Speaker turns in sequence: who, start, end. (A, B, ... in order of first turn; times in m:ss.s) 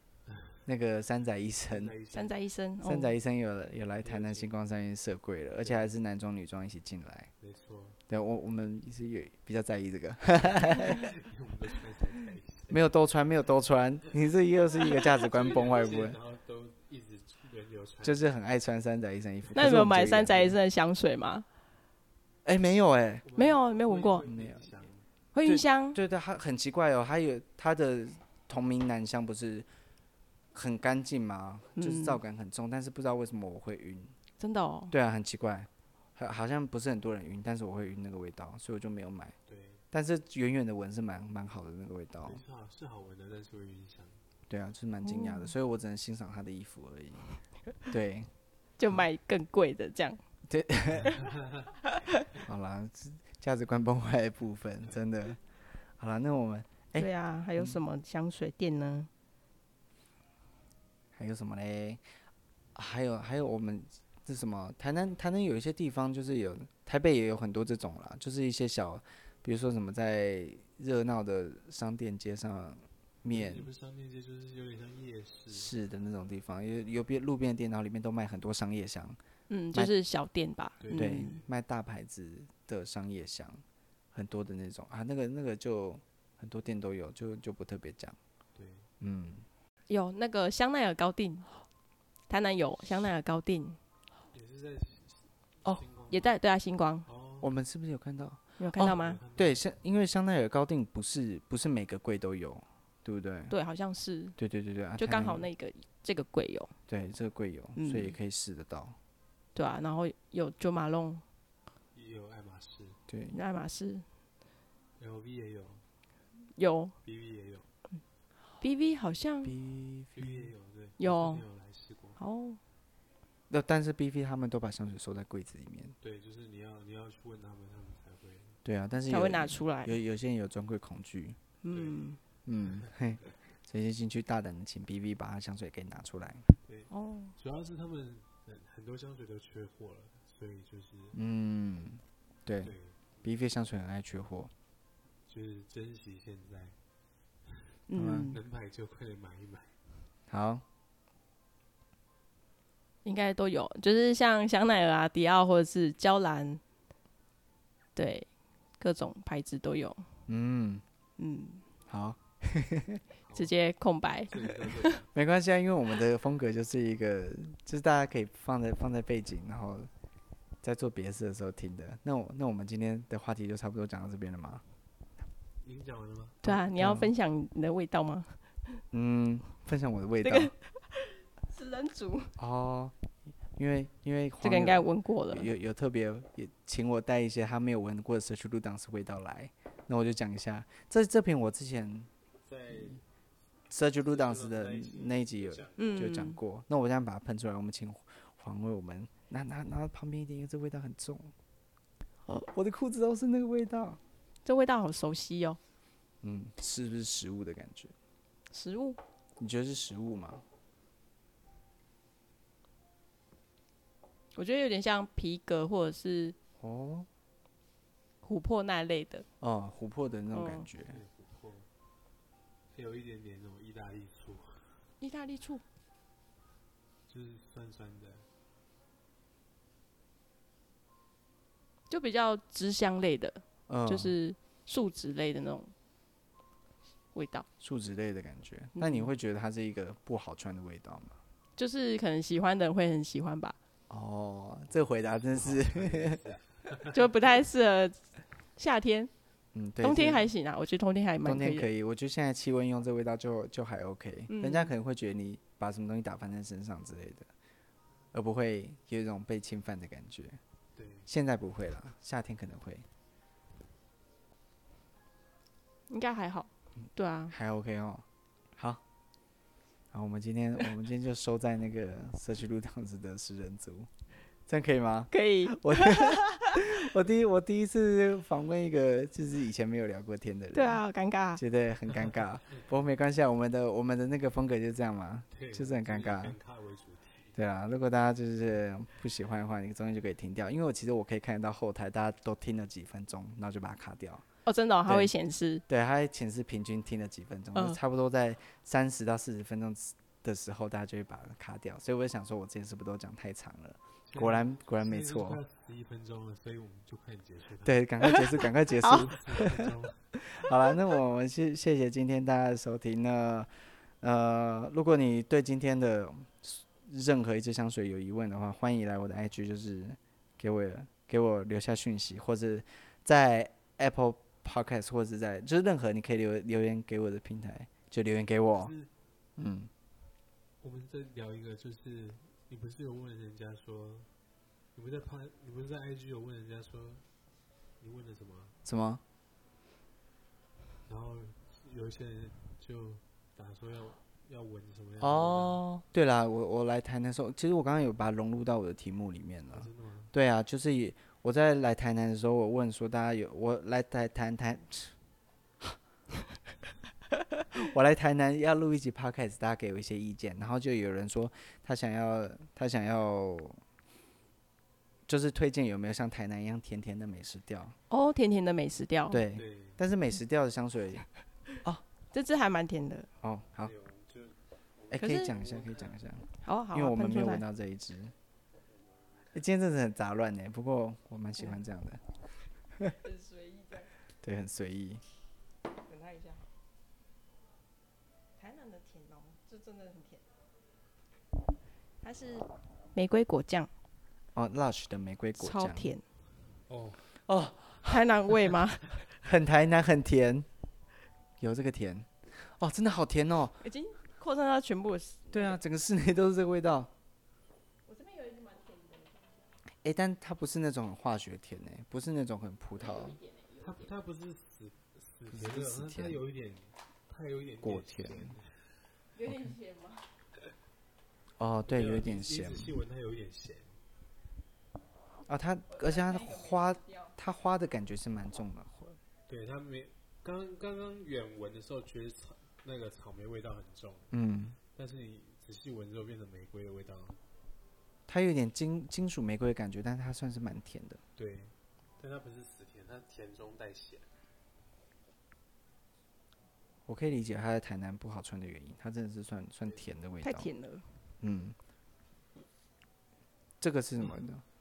0:00.2-0:00.6 A
0:00.6-0:01.9 B
0:01.7-0:02.3 A
0:02.1-0:03.1 C
0:02.8-0:07.3 B
0:04.0-0:04.5 A
0:05.6-0:05.9 A
0:07.4-0:08.0 A
0:08.1-0:11.1 B
0:10.4-0:12.8 A
0:12.7-0:16.2 B
0:15.2-0:18.3 A
0:18.0-0:20.6 B
0:19.5-0:21.4 C
0:22.4-0:23.2 B
0:23.2-0:25.0 A
0:23.3-0:24.3 C
0:24.2-0:24.7 B
0:25.3-0:26.0 C
0:25.4-0:29.7 B
0:30.5-0:34.1 B
0:31.8-0:32.2 C
0:34.4-0:34.9 C
0:34.9-0:39.3 B
0:39.4-0:39.8 A
0:39.9-0:42.4 B
0:42.2-0:44.2 A
0:44.5-0:47.3 B
0:45.0-0:45.5 C
0:47.8-0:48.3 B
0:48.8-0:50.2 C
0:50.5-0:51.2 B
0:51.0-0:51.7 A
0:51.9-0:52.2 C
0:52.4-0:55.4 B
0:56.0-0:57.8 B
0:57.0-0:59.1 C
1:01.1-1:02.0 B
1:02.7-1:13.7 B
1:13.3-1:15.7 A
1:15.5-1:19.2 B
1:19.5-1:21.4 C
1:20.8-1:21.4 A
1:20.9-1:23.6 B
1:24.1-1:28.2 B
1:28.5-1:28.9 A
1:29.0-1:29.4 B
1:29.9-1:31.4 C
1:32.3-1:33.8 C
1:34.3-1:36.3 A
1:36.1-1:37.0 C
1:37.0-1:37.5 A
1:37.4-1:43.5 B
1:38.6-1:39.2 C
1:38.8-1:39.6 A
1:43.5-1:44.4 C
1:44.4-1:45.4 B
1:45.0-1:46.7 C
1:46.9-1:49.0 B
1:47.8-1:48.2 C
1:49.5-1:51.2 C
1:51.9-1:53.0 A
1:53.1-1:53.4 B
1:53.3-1:54.0 C
1:55.0-1:55.8 A
1:56.6-1:56.9 C
1:57.0-1:57.7 A
1:58.6-1:59.5 C
1:59.4-2:00.5 B
2:00.2-2:02.2 A
2:01.0-2:01.4 C
2:02.2-2:02.6 C
2:03.5-2:06.0 B
2:06.0-2:08.6 A
2:08.6-2:11.4 B
2:09.1-2:09.9 C
2:11.6-2:12.2 C
2:11.7-2:12.0 A
2:12.4-2:16.4 B
2:12.6-2:12.9 A
2:16.6-2:21.2 A
2:16.9-2:17.3 C
2:21.1-2:24.5 B
2:22.6-2:23.1 A
2:25.2-2:26.8 A
2:27.4-2:29.7 A
2:27.9-2:28.4 C
2:27.9-2:28.3 B
2:30.3-2:30.6 B
2:33.0-2:36.6 C
2:38.0-2:38.3 C
2:38.8-2:40.0 C
2:40.3-2:40.8 B
2:41.2-2:41.6 C
2:41.9-2:43.0 B
2:43.2-2:43.5 A
2:43.3-2:45.0 C
2:44.3-2:45.1 A
2:45.1-2:49.9 B
2:50.6-2:54.6 B
2:55.6-2:56.4 A
2:56.4-2:57.1 B
2:56.4-2:58.4 C
2:58.9-3:00.5 B
3:00.2-3:02.3 C
3:02.4-3:02.9 B
3:03.5-3:12.1 B
3:04.4-3:05.5 C
3:12.4-3:13.0 A
3:13.7-3:21.3 B
3:14.0-3:16.2 A
3:15.8-3:16.4 C
3:22.3-3:24.0 B
3:24.4-3:25.6 C
3:26.2-3:27.9 B
3:28.5-3:29.0 C
3:29.4-3:30.4 B
3:34.3-3:36.4 C
3:36.6-3:37.1 B
3:38.2-3:39.2 C
3:39.4-3:41.0 B
3:40.3-3:40.6 C
3:40.9-3:41.7 A
3:42.7-3:44.8 A
3:45.0-3:45.6 C
3:47.1-3:48.3 A
3:51.9-3:55.7 C
3:53.7-3:54.2 B
3:57.1-3:57.5 C
3:57.6-4:01.2 B
3:58.8-3:59.1 C
4:01.6-4:03.6 C
4:03.9-4:06.2 B
4:05.2-4:07.1 A
4:06.9-4:08.0 C
4:08.6-4:09.1 C
4:09.5-4:10.3 B
4:09.8-4:11.7 C
4:11.2-4:17.3 B
4:14.3-4:14.7 C
4:18.1-4:20.4 B
4:20.7-4:21.1 A
4:21.1-4:22.8 B
4:25.9-4:27.3 C
4:27.3-4:28.0 B
4:29.9-4:33.9 B
4:34.5-4:40.8 B
4:35.1-4:36.6 C
4:40.5-4:41.4 C
4:41.4-4:46.4 B
4:45.3-4:47.4 A
4:47.3-4:54.2 B
4:54.4-4:55.6 C
4:54.9-4:55.1 B
4:55.7-5:05.4 B
5:04.1-5:08.2 A
5:07.6-5:09.6 B
5:08.1-5:09.1 C
5:08.8-5:10.0 A
5:10.3-5:13.5 B
5:14.0-5:28.7 B
5:28.5-5:28.9 A
5:29.4-5:29.7 B
5:30.6-5:34.1 A
5:34.7-5:37.0 A
5:37.8-5:38.6 A
5:38.6-5:39.0 B
5:40.9-5:45.6 A
5:45.0-5:54.9 B
5:49.5-5:50.1 A
5:57.5-6:03.6 B
6:05.1-6:07.8 B
6:07.9-6:09.2 C
6:09.1-6:11.0 B
6:09.3-6:09.8 A
6:12.1-6:13.1 C
6:13.2-6:13.7 B
6:13.6-6:16.0 A
6:14.9-6:18.1 B
6:15.0-6:15.3 C
6:16.4-6:17.4 C
6:18.7-6:19.3 A
6:19.3-6:22.0 B
6:23.0-6:23.9 C
6:24.2-6:25.0 B
6:25.8-6:26.4 C
6:28.4-6:30.2 C
6:32.0-6:33.7 C
6:34.3-6:35.9 B
6:35.4-6:36.0 C
6:36.7-6:37.0 A
6:37.3-6:38.0 B
6:37.8-6:39.0 C
6:39.2-6:40.5 B
6:41.4-6:43.6 B
6:43.6-6:45.6 C
6:45.3-6:46.9 B
6:47.9-6:49.4 C
6:49.8-6:53.2 B
6:52.8-6:53.9 C
6:53.6-6:58.6 A
6:55.3-6:56.2 B
6:57.6-6:58.3 B
6:59.2-7:00.0 C
7:01.4-7:02.7 B
7:01.7-7:03.8 A
7:05.3-7:09.0 B
7:05.8-7:07.1 C
7:09.3-7:14.1 A
7:14.1-7:14.6 B
7:14.7-7:17.2 A
7:18.1-7:21.0 B
7:21.2-7:24.1 A
7:26.9-7:30.5 B
7:30.2-7:30.8 C
7:31.2-7:31.6 B
7:33.6-7:34.4 B